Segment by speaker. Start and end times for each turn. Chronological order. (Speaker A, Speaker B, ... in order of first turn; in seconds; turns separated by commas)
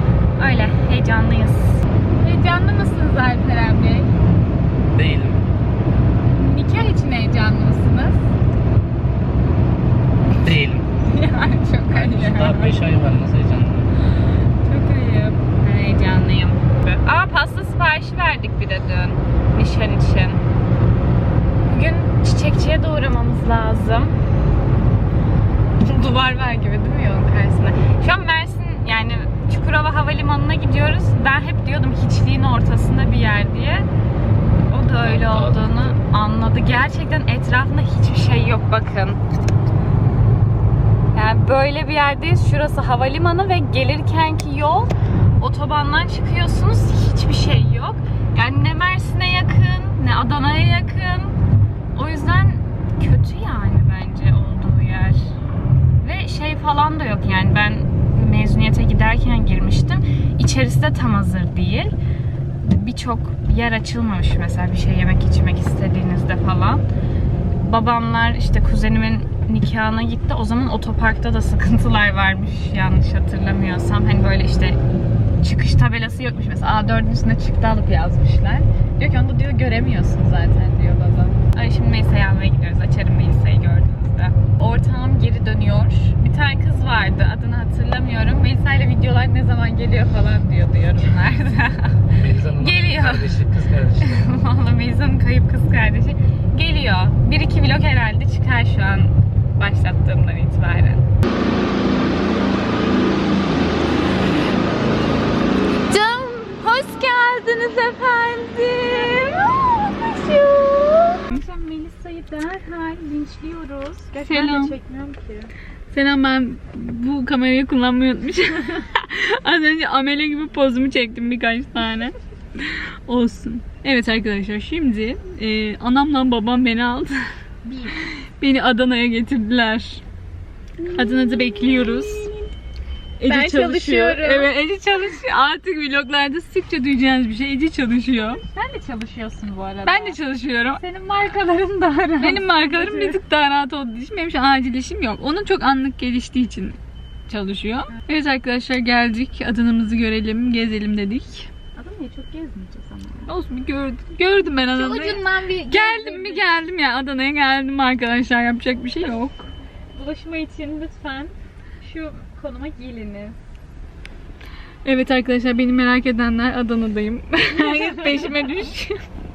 Speaker A: 0.4-4.1, Speaker B: 4.9-5.4, Speaker A: 6.3-8.3, Speaker B: 10.4-10.9, Speaker A: 11.0-12.8, Speaker B: 11.9-13.9, Speaker A: 14.7-20.4, Speaker A: 21.7-24.2, Speaker A: 25.8-33.9, Speaker A: 34.7-39.2, Speaker B: 35.0-36.0, Speaker A: 41.1-51.4, Speaker A: 51.9-55.4, Speaker A: 56.0-61.9, Speaker A: 62.6-66.8, Speaker A: 67.6-74.8, Speaker A: 75.4-101.0, Speaker B: 92.2-94.2, Speaker A: 105.9-115.5, Speaker C: 114.2-114.8, Speaker C: 115.9-127.3, Speaker A: 127.7-128.0, Speaker C: 128.0-130.0, Speaker A: 130.8-132.5, Speaker C: 130.9-132.3, Speaker C: 133.2-138.4, Speaker A: 133.3-134.5, Speaker A: 138.5-140.2, Speaker C: 139.8-140.8, Speaker A: 140.7-143.2, Speaker C: 142.2-146.8, Speaker C: 147.3-151.5, Speaker A: 151.8-153.3, Speaker C: 153.3-159.5, Speaker A: 154.7-156.4, Speaker A: 159.9-163.4, Speaker C: 164.8-169.0, Speaker A: 167.5-168.3